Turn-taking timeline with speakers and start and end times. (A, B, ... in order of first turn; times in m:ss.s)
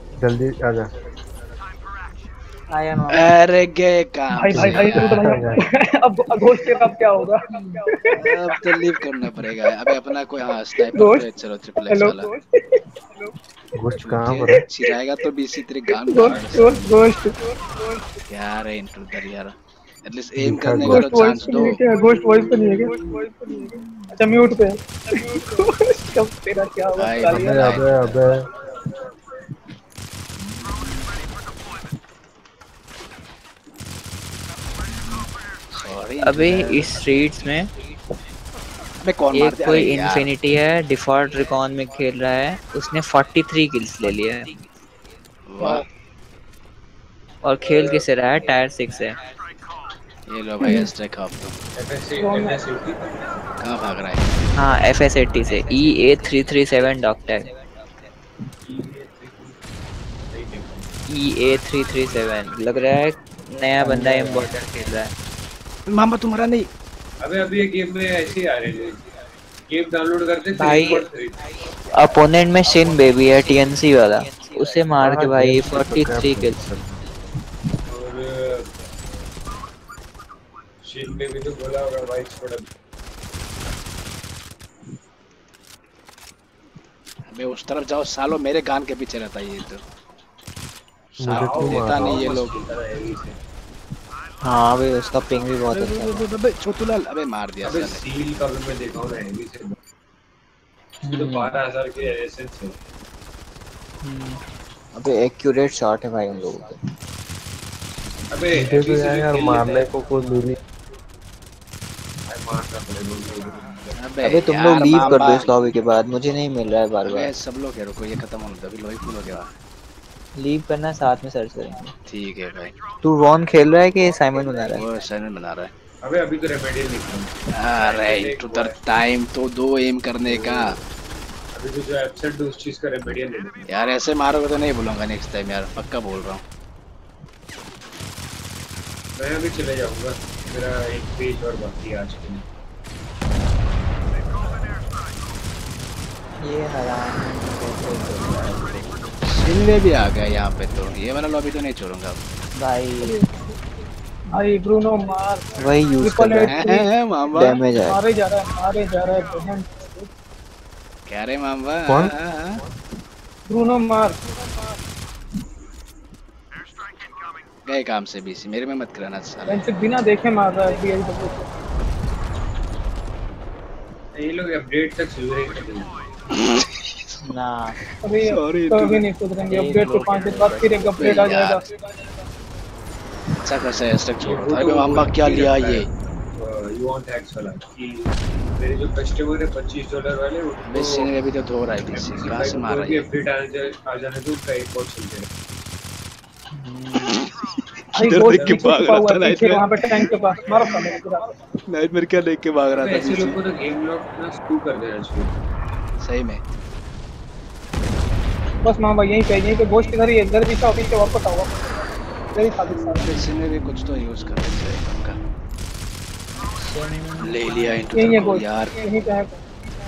0:00.2-0:00.9 A
0:02.7-0:03.1 B
0:03.1-0:05.2 C
0:04.3-0:08.4 D
0:04.5-0:05.6 A
0:08.2-0:12.3 C
0:10.8-0:13.3 D
0:13.7-0:14.6 A
0:14.0-0:16.8 C
0:15.9-0:18.2 D
0:16.2-0:17.0 E
0:18.3-0:21.8 C
0:20.4-0:21.2 A
0:20.8-0:27.8 D
0:27.0-0:28.2 C
0:27.3-0:28.5 A
0:35.7-0:36.9 C
0:36.2-0:37.7 B
0:39.0-0:40.3 C
0:39.3-0:44.5 B
0:45.5-0:45.8 C
0:47.4-0:49.2 B
0:47.7-0:48.0 E
0:50.3-0:51.6 C
0:50.6-0:50.9 B
0:51.7-0:53.4 E
0:52.2-0:52.6 D
0:53.6-0:54.3 C
0:54.5-0:57.5 B
0:58.6-0:59.6 E
1:00.3-1:01.0 E
1:01.1-1:05.1 B
1:03.8-1:04.5 A
1:05.9-1:06.7 C
1:07.2-1:09.0 E
1:09.7-1:11.4 E
1:10.5-1:11.0 B
1:12.0-1:16.6 B
1:15.0-1:17.0 A
1:17.9-1:18.6 E
1:20.8-1:22.6 E
1:27.3-1:29.8 C
1:31.1-1:32.5 C
1:31.2-1:32.2 A
1:31.3-1:33.3 E
1:34.4-1:36.2 B
1:35.7-1:38.0 C
1:37.6-1:39.8 E
1:41.0-1:41.5 B
1:41.1-1:42.7 E
1:44.0-1:44.4 B
1:44.9-1:46.8 B
1:48.3-1:49.9 E
1:48.5-1:50.6 A
1:52.3-1:53.9 E
1:53.9-1:55.6 C
1:54.2-1:57.3 B
1:54.8-1:55.3 E
1:57.0-1:59.5 C
2:00.4-2:01.9 B
2:02.1-2:02.7 C
2:03.0-2:04.8 B
2:04.7-2:05.7 C
2:06.0-2:08.8 E
2:07.6-2:10.8 C
2:10.3-2:10.8 E
2:11.5-2:13.6 E
2:13.6-2:16.4 C
2:19.2-2:22.4 E
2:26.4-2:28.9 B
2:29.3-2:32.2 C
2:32.6-2:33.1 B
2:34.4-2:35.4 D
2:35.6-2:36.6 B
2:36.0-2:40.1 D
2:36.5-2:37.6 C
2:37.3-2:38.0 B
2:41.1-2:42.6 C
2:41.9-2:42.1 A
2:43.5-2:44.4 D
2:47.6-2:49.7 C
2:49.5-2:51.5 D
2:54.1-2:55.9 E
2:57.2-2:57.8 B
2:58.0-3:01.7 D
2:58.3-2:59.0 C
2:59.5-3:01.4 B
3:01.0-3:01.6 C
3:03.4-3:05.9 C
3:04.2-3:11.1 E
3:10.6-3:13.0 C
3:11.9-3:15.3 E
3:16.5-3:17.2 B
3:18.0-3:21.3 D
3:18.0-3:20.0 C
3:18.2-3:18.7 E
3:21.7-3:23.4 C
3:22.8-3:25.3 E
3:26.0-3:26.4 C
3:28.6-3:33.1 D
3:32.8-3:35.2 C
3:36.5-3:37.9 B
3:37.2-3:38.9 C
3:37.9-3:39.4 D